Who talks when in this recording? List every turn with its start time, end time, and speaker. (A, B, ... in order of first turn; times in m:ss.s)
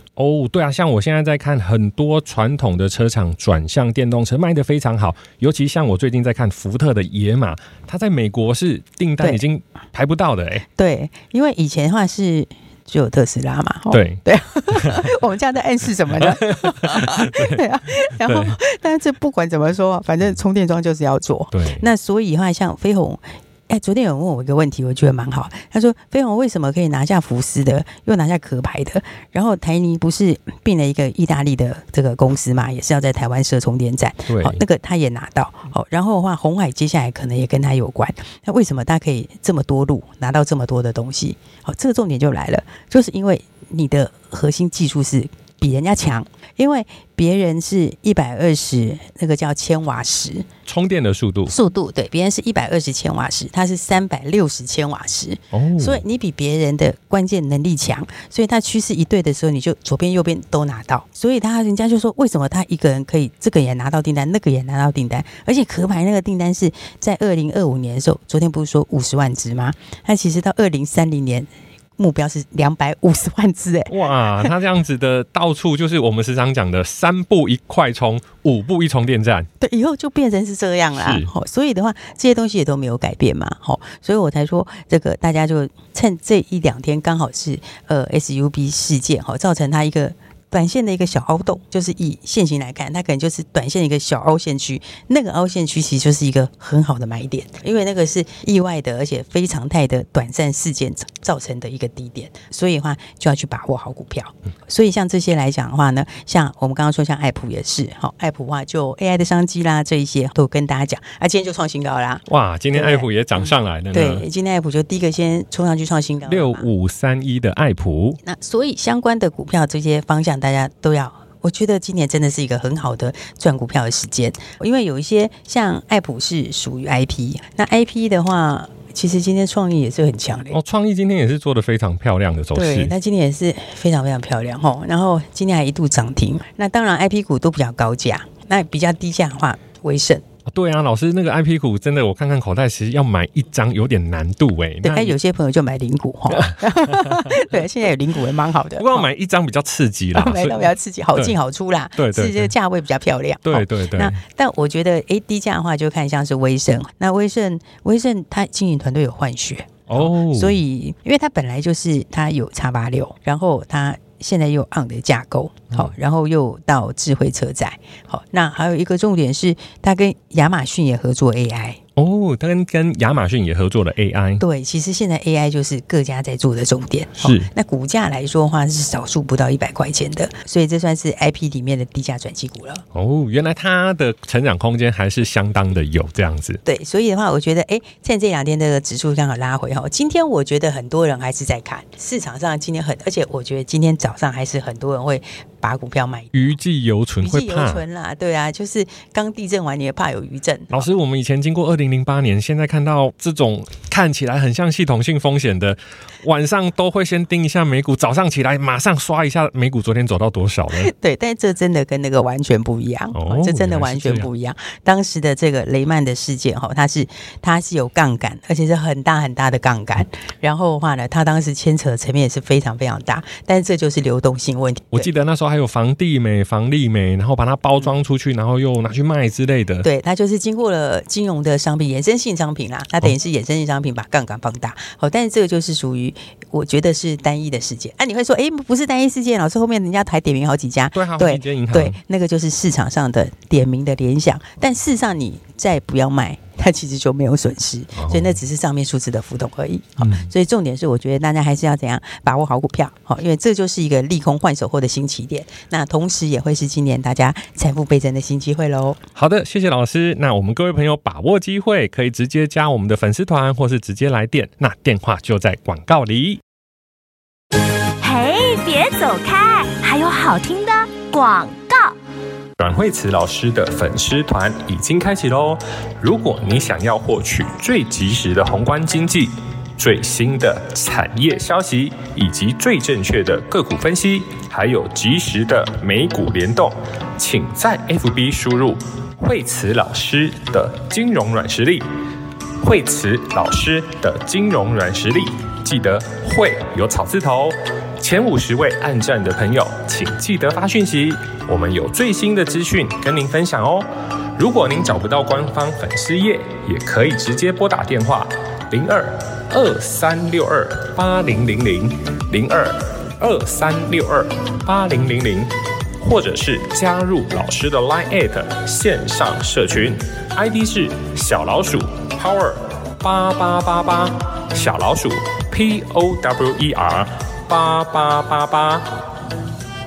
0:00.2-0:10.6 A
0:10.8-0:50.4 B
0:13.9-0:15.1 A
0:16.1-0:17.6 A
0:18.2-0:18.6 A
0:21.5-0:21.8 A
0:34.3-0:34.6 A
0:50.6-0:51.5 A
0:51.5-1:14.5 B
0:55.5-0:56.0 A
1:13.9-1:19.5 A
1:19.6-1:53.0 B
1:20.9-1:21.3 A
1:52.3-1:54.2 A
1:53.9-1:56.7 B
1:56.2-1:58.2 A
1:58.2-2:10.6 B
2:10.5-2:12.9 A
2:12.5-2:20.2 B
2:20.5-2:25.1 A
2:24.8-2:29.1 B
2:26.3-2:27.6 A
2:28.8-2:31.3 A
2:30.1-2:51.8 B
2:32.0-2:32.5 A
2:33.4-2:34.2 A
2:39.9-2:40.6 A
2:52.0-2:54.4 A
2:54.4-3:02.8 B
2:57.2-2:57.5 A
3:02.9-3:06.6 A
3:06.6-3:16.5 B
3:16.3-3:17.8 A
3:17.2-3:20.8 B
3:20.7-3:30.9 A
3:30.7-3:45.1 B
3:33.1-3:34.3 A
3:44.9-3:49.9 A
3:49.8-4:19.0 B
4:00.9-4:02.0 A
4:07.9-4:08.3 A
4:10.0-4:10.3 A
4:19.2-4:26.4 A
4:28.0-4:31.9 C
4:32.6-4:51.9 A
4:52.6-5:29.0 A